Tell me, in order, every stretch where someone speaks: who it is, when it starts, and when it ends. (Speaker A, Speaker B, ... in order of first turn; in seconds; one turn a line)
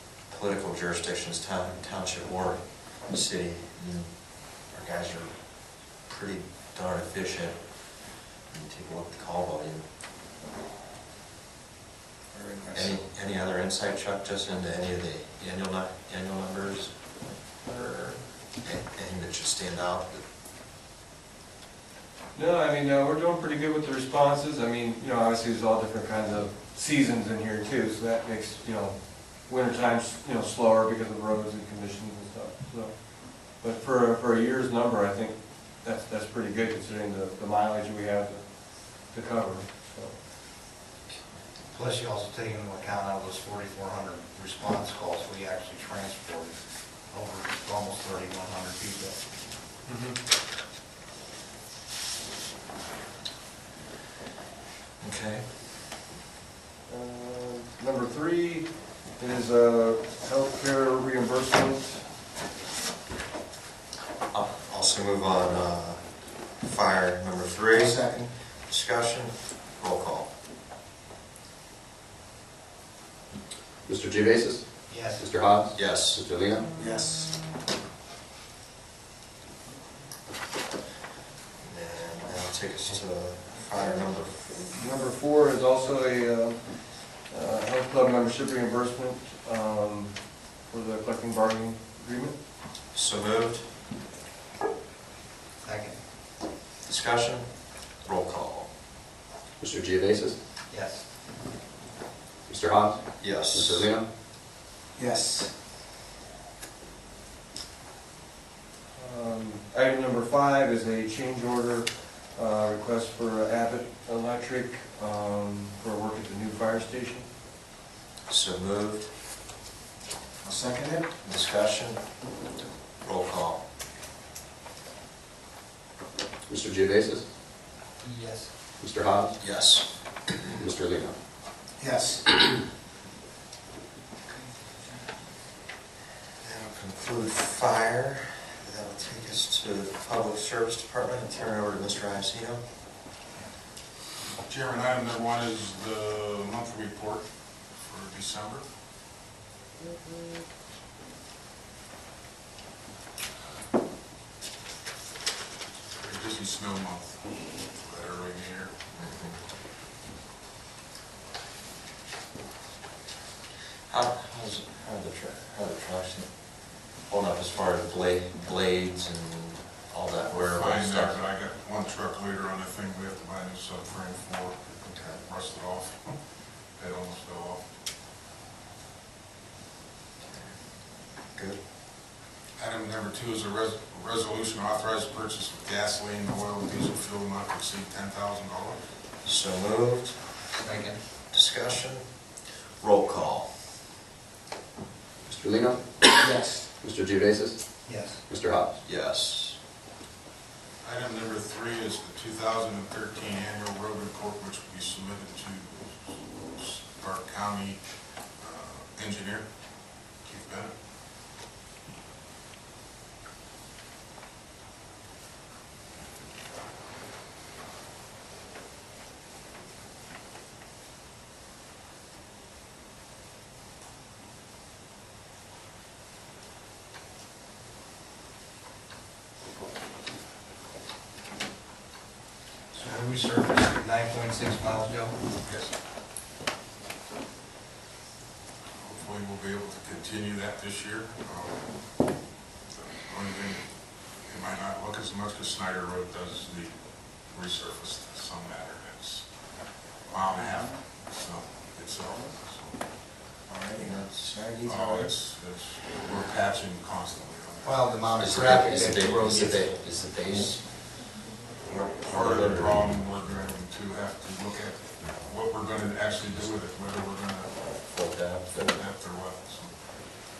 Speaker A: 0.2-4.1
Speaker A: 4.6-5.4
Speaker A: 6.1-7.6
Speaker A: 8.5-9.8
Speaker A: 12.7-16.9
Speaker A: 17.6-20.2
Speaker B: 22.3-40.2
Speaker C: 41.7-49.2
Speaker B: 49.9-50.2
Speaker A: 55.0-55.4
Speaker B: 56.9-62.0
Speaker A: 64.3-66.0
Speaker A: 66.6-68.0
Speaker C: 67.7-68.3
Speaker A: 68.7-70.3
Speaker D: 73.9-74.6
Speaker C: 74.9-75.3
Speaker D: 75.2-76.7
Speaker A: 75.7-76.2
Speaker C: 76.8-77.3
Speaker A: 81.6-84.5
Speaker B: 84.5-86.6
Speaker B: 87.3-90.2
Speaker B: 90.7-92.3
Speaker A: 92.9-93.6
Speaker C: 95.6-96.0
Speaker A: 96.8-97.5
Speaker A: 98.0-98.7
Speaker D: 99.6-100.4
Speaker C: 100.7-101.0
Speaker D: 102.5-103.0
Speaker A: 103.2-103.9
Speaker D: 103.5-104.1
Speaker C: 105.0-105.5
Speaker B: 108.9-117.3
Speaker A: 118.3-119.1
Speaker C: 120.4-121.1
Speaker A: 121.2-122.0
Speaker A: 123.0-123.6
Speaker D: 126.5-127.2
Speaker C: 128.0-128.5
Speaker D: 128.8-129.3
Speaker A: 129.4-129.9
Speaker D: 130.5-131.2
Speaker C: 131.8-132.2
Speaker A: 136.4-142.6
Speaker E: 144.4-148.6
Speaker E: 155.9-157.2
Speaker E: 157.7-158.7
Speaker A: 158.9-159.4
Speaker A: 163.9-166.3
Speaker A: 167.1-171.2
Speaker E: 170.2-176.2
Speaker A: 174.8-175.2
Speaker E: 176.8-177.6
Speaker A: 180.3-180.5
Speaker A: 181.3-181.6
Speaker E: 182.6-188.8
Speaker A: 189.2-190.2
Speaker C: 190.5-191.0
Speaker A: 191.3-192.0
Speaker A: 192.8-193.5
Speaker D: 195.3-197.6
Speaker C: 196.2-196.7
Speaker C: 197.8-198.2
Speaker D: 198.3-198.7
Speaker A: 198.8-199.6
Speaker E: 200.8-207.8
Speaker E: 208.4-209.5
Speaker E: 210.2-210.7
Speaker C: 232.7-235.2
Speaker E: 235.4-235.7
Speaker E: 238.8-241.7
Speaker E: 242.7-243.7
Speaker E: 244.3-246.8
Speaker E: 247.3-249.3
Speaker E: 250.0-252.8
Speaker A: 253.5-255.0
Speaker E: 254.6-258.1
Speaker C: 257.6-259.7
Speaker A: 258.2-260.6
Speaker A: 261.6-262.9
Speaker E: 262.0-267.6
Speaker A: 267.8-268.8
Speaker E: 268.5-269.7